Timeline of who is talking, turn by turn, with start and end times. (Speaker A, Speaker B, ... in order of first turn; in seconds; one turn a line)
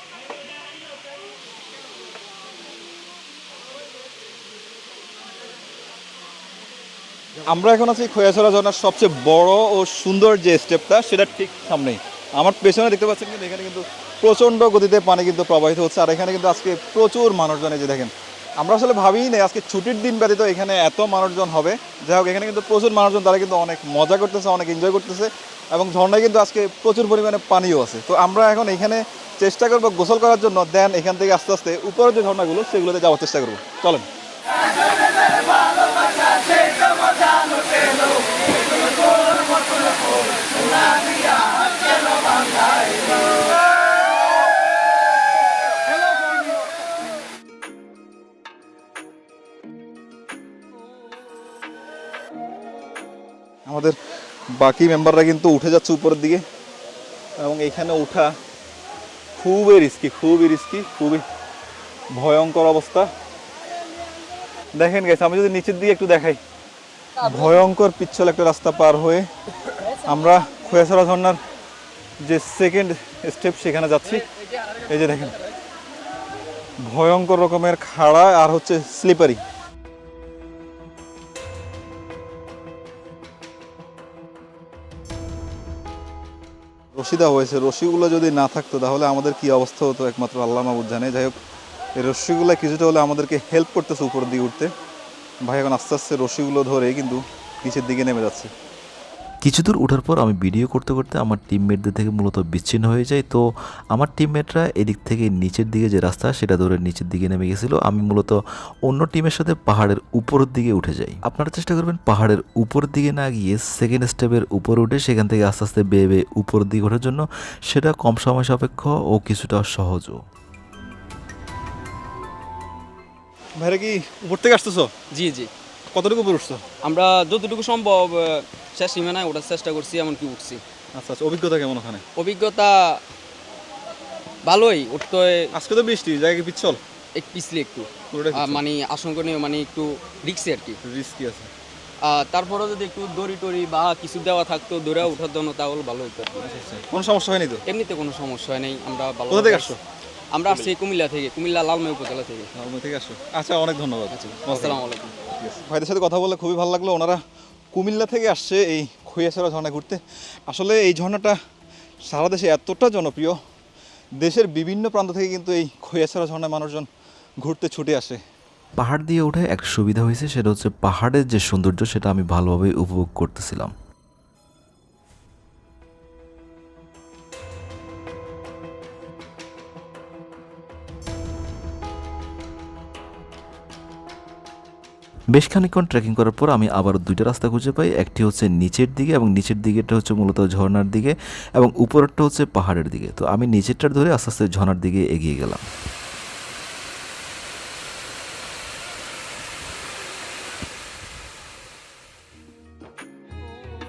Speaker A: 7.5-34.1
Speaker A: 53.6-54.0
Speaker A: 54.6-56.4
Speaker A: 57.4-58.3
Speaker A: 59.4-61.2
Speaker A: 62.1-63.1
Speaker A: 64.8-66.4
Speaker A: 67.2-69.2
Speaker A: 70.0-71.4
Speaker A: 72.2-74.2
Speaker A: 74.8-75.3
Speaker A: 76.9-79.4
Speaker A: 86.9-91.3
Speaker A: 92.0-94.7
Speaker A: 95.4-98.5
Speaker B: 99.4-103.4
Speaker B: 103.9-120.2
Speaker A: 123.6-124.9
Speaker C: 125.1-125.5
Speaker A: 125.9-126.6
Speaker C: 126.8-130.6
Speaker A: 131.0-132.0
Speaker C: 132.2-133.0
Speaker C: 134.4-135.5
Speaker A: 135.5-136.8
Speaker C: 137.2-140.8
Speaker A: 138.1-138.6
Speaker A: 140.8-141.5
Speaker C: 142.0-146.4
Speaker A: 146.4-147.6
Speaker C: 147.7-149.8
Speaker A: 149.3-149.8
Speaker C: 150.3-152.5
Speaker A: 150.5-150.7
Speaker A: 152.6-157.2
Speaker C: 154.1-155.1
Speaker A: 157.7-161.4
Speaker A: 162.1-163.4
Speaker A: 164.2-166.9
Speaker A: 167.4-168.2
Speaker B: 168.8-173.7
Speaker B: 185.3-195.6